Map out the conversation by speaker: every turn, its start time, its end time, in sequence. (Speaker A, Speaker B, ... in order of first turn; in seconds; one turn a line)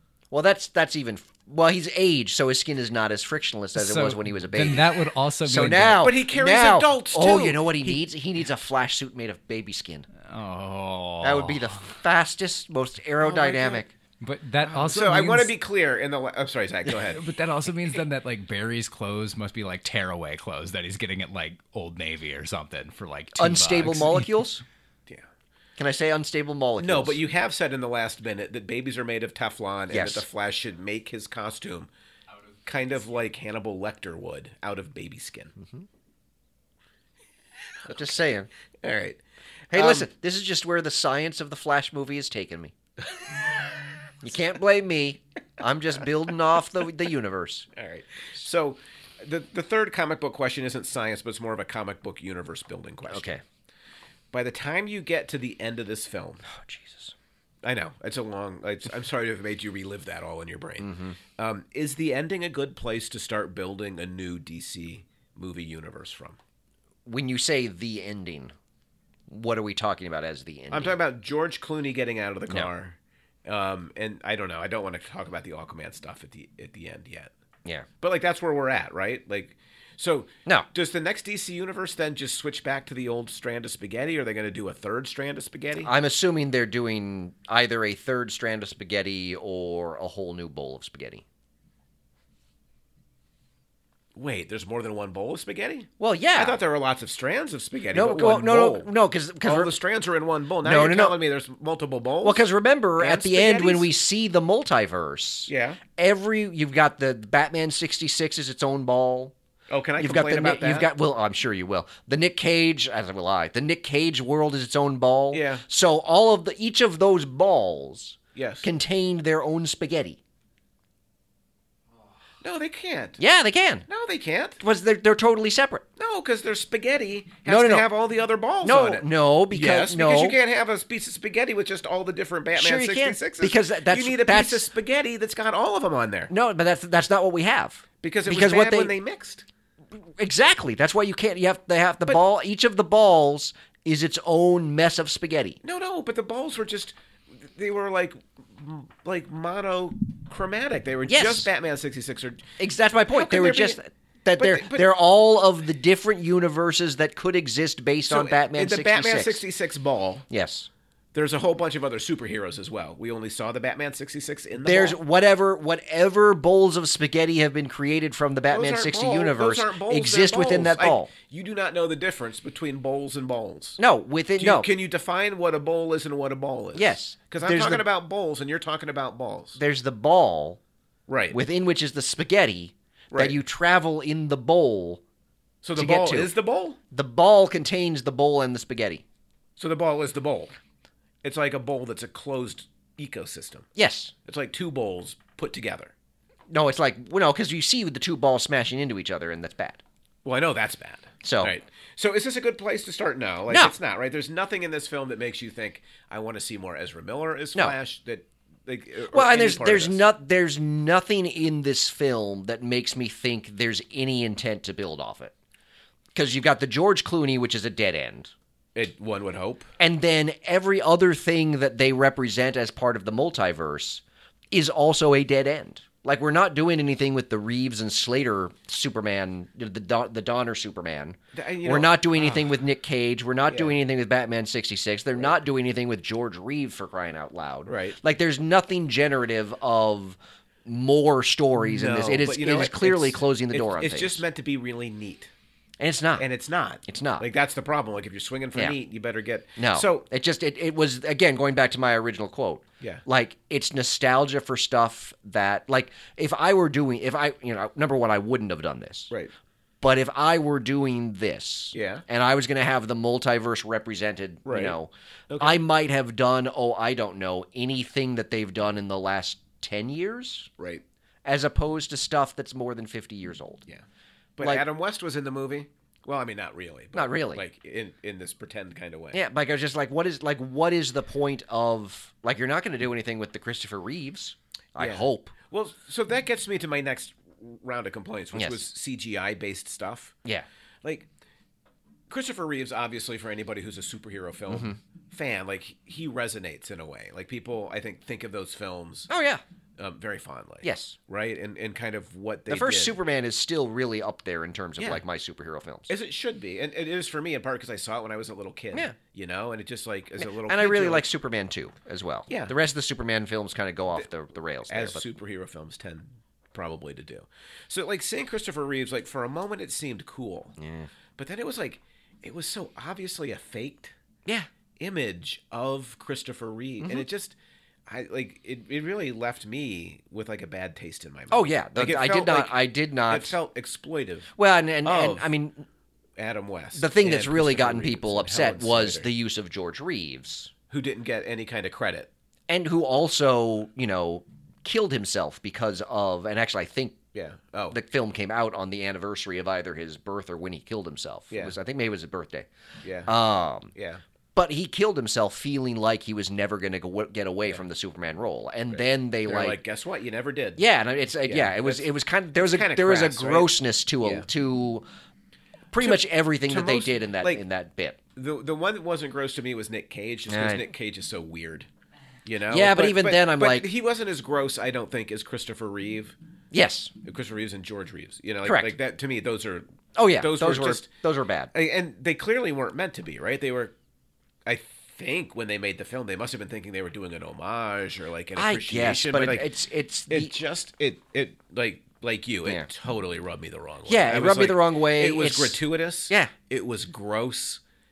Speaker A: 0.3-4.9
Speaker B: 3.7-6.1
Speaker A: 5.4-10.1
Speaker C: 6.0-8.0
Speaker B: 10.2-11.8
Speaker A: 11.2-13.9
Speaker C: 13.2-13.8
Speaker B: 14.2-15.5
Speaker C: 14.6-17.3
Speaker B: 17.0-24.3
Speaker A: 23.4-24.6
Speaker A: 25.8-27.2
Speaker C: 26.8-31.9
Speaker A: 29.9-30.2
Speaker C: 32.6-35.5
Speaker A: 37.9-38.5
Speaker C: 38.8-40.1
Speaker A: 39.7-42.7
Speaker A: 44.2-47.7
Speaker C: 47.7-53.4
Speaker A: 53.1-53.4
Speaker C: 54.3-56.5
Speaker A: 56.5-57.1
Speaker C: 57.6-66.4
Speaker A: 60.8-61.2
Speaker A: 67.0-68.5
Speaker A: 69.3-71.0
Speaker C: 70.7-77.3
Speaker C: 78.0-85.9
Speaker A: 85.8-91.2
Speaker C: 94.1-98.9
Speaker A: 96.0-96.6
Speaker A: 97.9-99.8
Speaker C: 99.4-102.4
Speaker A: 100.6-101.2
Speaker A: 102.2-109.3
Speaker C: 103.0-103.9
Speaker C: 105.5-105.8
Speaker C: 109.7-110.9
Speaker A: 110.0-120.2
Speaker C: 115.3-115.6
Speaker C: 118.3-118.7
Speaker C: 122.4-123.2
Speaker A: 123.2-123.8
Speaker C: 123.9-124.6
Speaker A: 124.6-125.8
Speaker C: 126.0-136.3
Speaker A: 127.5-127.9
Speaker A: 128.6-130.4
Speaker A: 132.5-134.7
Speaker A: 136.3-138.9
Speaker C: 138.0-139.4
Speaker A: 139.9-145.6
Speaker C: 145.6-152.5
Speaker A: 151.1-151.5
Speaker A: 152.6-159.4
Speaker C: 153.1-153.8
Speaker C: 154.3-154.9
Speaker C: 158.1-160.2
Speaker A: 160.3-160.7
Speaker C: 161.1-165.0
Speaker A: 164.6-171.1
Speaker C: 168.5-173.8
Speaker A: 173.8-174.7
Speaker C: 174.4-179.6
Speaker A: 176.7-177.8
Speaker A: 179.6-180.6
Speaker C: 181.1-181.4
Speaker A: 181.3-185.0
Speaker C: 183.1-183.4
Speaker C: 185.6-186.8
Speaker A: 185.8-186.3
Speaker A: 186.9-189.0
Speaker C: 189.6-190.5
Speaker C: 191.2-193.7
Speaker A: 193.8-194.1
Speaker C: 194.2-195.9
Speaker A: 196.5-199.8
Speaker C: 200.2-210.1
Speaker A: 201.2-201.5
Speaker A: 203.5-203.7
Speaker A: 209.1-215.3
Speaker A: 216.1-218.3
Speaker C: 218.7-219.7
Speaker A: 219.8-244.2
Speaker C: 231.3-232.5
Speaker C: 233.5-233.8
Speaker C: 237.7-238.0
Speaker C: 241.7-245.3
Speaker A: 245.8-246.2
Speaker C: 246.2-250.1
Speaker A: 246.8-247.2
Speaker A: 249.6-259.1
Speaker A: 259.8-270.5
Speaker C: 261.7-262.0
Speaker C: 264.4-264.8
Speaker C: 265.3-265.6
Speaker C: 270.6-270.8
Speaker A: 271.2-273.6
Speaker C: 274.4-279.2
Speaker A: 276.9-277.4
Speaker A: 279.1-285.3
Speaker C: 284.8-290.1
Speaker A: 288.3-288.6
Speaker C: 292.1-299.1
Speaker A: 294.5-294.8
Speaker A: 299.1-299.4
Speaker C: 299.8-302.9
Speaker A: 300.6-300.9
Speaker A: 302.5-305.9
Speaker C: 304.8-305.0
Speaker C: 305.9-311.0
Speaker A: 310.2-315.0
Speaker C: 312.3-312.5
Speaker C: 314.7-320.6
Speaker A: 320.6-320.9
Speaker C: 321.2-323.9
Speaker C: 324.8-327.4
Speaker A: 326.8-327.1
Speaker C: 327.9-334.3
Speaker A: 331.3-333.4
Speaker A: 334.4-335.6
Speaker C: 334.8-335.3
Speaker C: 336.2-339.1
Speaker A: 336.7-340.5
Speaker C: 340.7-342.1
Speaker A: 342.5-347.0
Speaker C: 347.1-347.8
Speaker A: 347.7-352.5
Speaker C: 351.3-351.5
Speaker C: 352.8-353.1
Speaker A: 353.1-353.7
Speaker C: 353.7-354.0
Speaker A: 354.3-359.6
Speaker C: 358.7-360.6
Speaker A: 360.6-364.9
Speaker C: 361.2-364.3
Speaker A: 365.7-368.0
Speaker C: 365.8-367.4
Speaker C: 368.1-371.7
Speaker A: 370.3-370.6
Speaker C: 372.2-376.1
Speaker A: 372.5-373.7
Speaker A: 376.5-376.9
Speaker C: 377.0-380.9
Speaker A: 378.4-378.7
Speaker A: 379.9-381.5
Speaker C: 381.5-383.7
Speaker C: 384.4-389.5
Speaker A: 388.4-390.4
Speaker C: 390.1-397.6
Speaker A: 393.9-396.3